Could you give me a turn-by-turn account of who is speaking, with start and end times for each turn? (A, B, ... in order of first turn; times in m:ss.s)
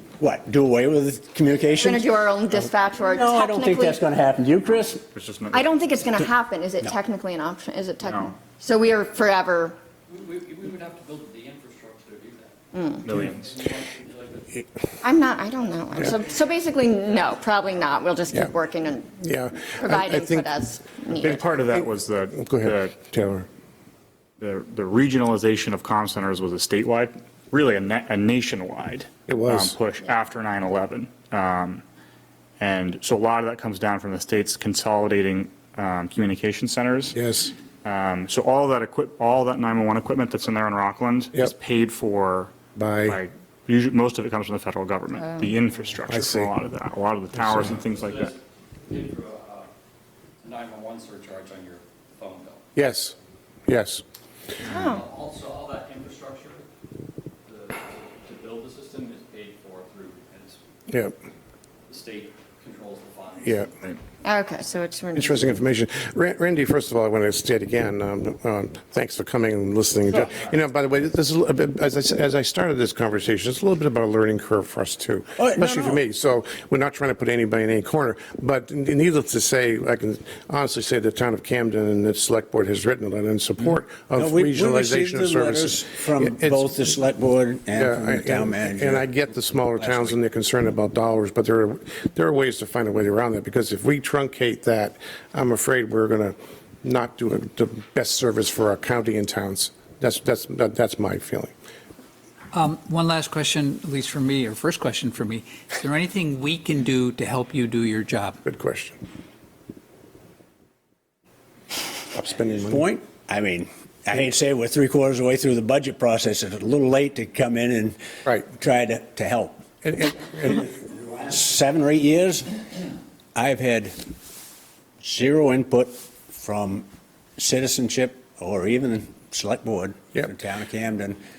0:00.2-0:02.1 A
0:01.8-0:04.0 B
0:03.0-0:05.0 A
0:05.1-0:05.7 C
0:05.5-0:09.8 B
0:08.0-0:08.3 C
0:10.1-0:12.5 D
0:12.7-0:13.1 B
0:13.0-0:13.5 C
0:13.2-0:14.6 D
0:15.0-0:21.4 B
0:17.2-0:17.6 D
0:19.2-0:20.5 E
0:21.1-0:23.0 C
0:22.4-0:23.5 E
0:24.4-0:31.8 C
0:29.3-0:29.8 E
0:32.6-0:37.1 C
0:37.1-0:37.5 E
0:37.8-0:42.5 C
0:42.8-0:43.2 E
0:43.0-0:48.3 C
0:46.1-0:46.5 E
0:47.8-0:49.7 D
0:50.4-0:52.6 D
0:52.7-0:53.1 E
0:53.7-0:54.0 E
0:54.6-0:55.0 B
0:54.7-0:56.6 D
0:57.4-1:00.6 D
1:00.9-1:01.1 E
1:01.9-1:03.7 D
1:03.4-1:03.7 E
1:04.2-1:05.6 B
1:05.1-1:26.7 E
1:15.4-1:16.0 A
1:24.2-1:29.1 A
1:27.7-1:41.5 E
1:29.8-1:30.2 A
1:42.5-1:48.4 F
1:48.4-1:49.0 E
1:52.1-1:52.9 E
1:52.2-1:59.6 A
1:59.8-2:00.7 E
2:00.2-2:02.5 A
2:03.3-2:04.0 A
2:05.0-2:06.8 A
2:07.4-2:11.2 A